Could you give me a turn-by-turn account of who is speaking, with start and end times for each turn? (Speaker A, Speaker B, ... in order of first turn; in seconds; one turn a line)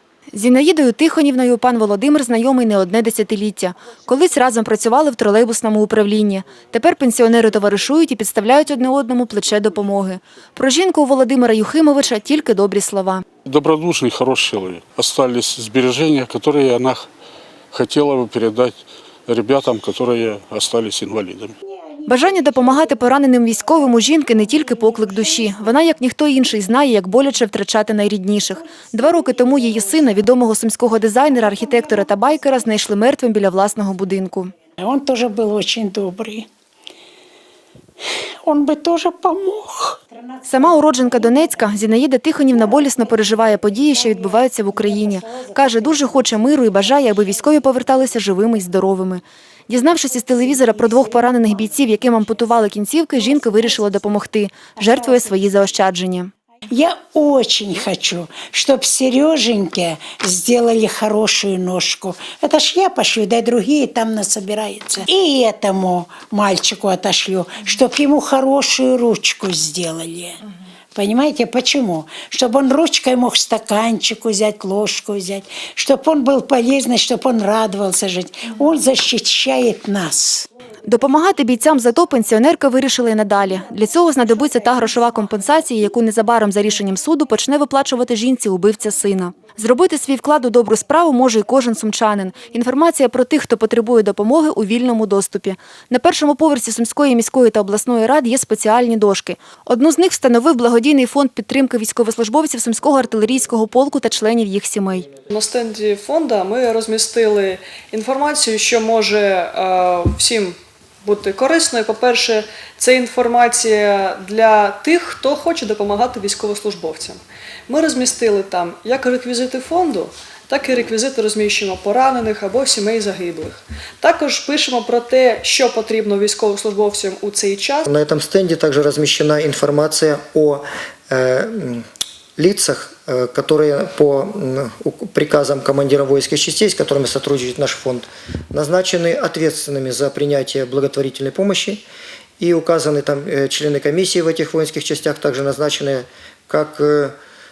Speaker A: 0.3-13.2
Speaker B: 13.4-17.1
Speaker B: 17.7-21.5
Speaker A: 22.1-34.5
Speaker C: 28.7-29.8
Speaker C: 34.8-36.5
Speaker C: 38.4-41.7
Speaker A: 40.5-56.3
Speaker C: 42.5-47.6
Speaker C: 50.5-51.6
Speaker C: 53.3-53.9
Speaker C: 54.9-55.3
Speaker C: 56.7-70.4
Speaker C: 70.9-80.5
Speaker A: 80.8-105.1
Speaker D: 105.3-117.2
Speaker D: 117.7-127.8
Speaker E: 127.8-131.8
Speaker E: 132.4-141.8
Speaker E: 142.4-147.1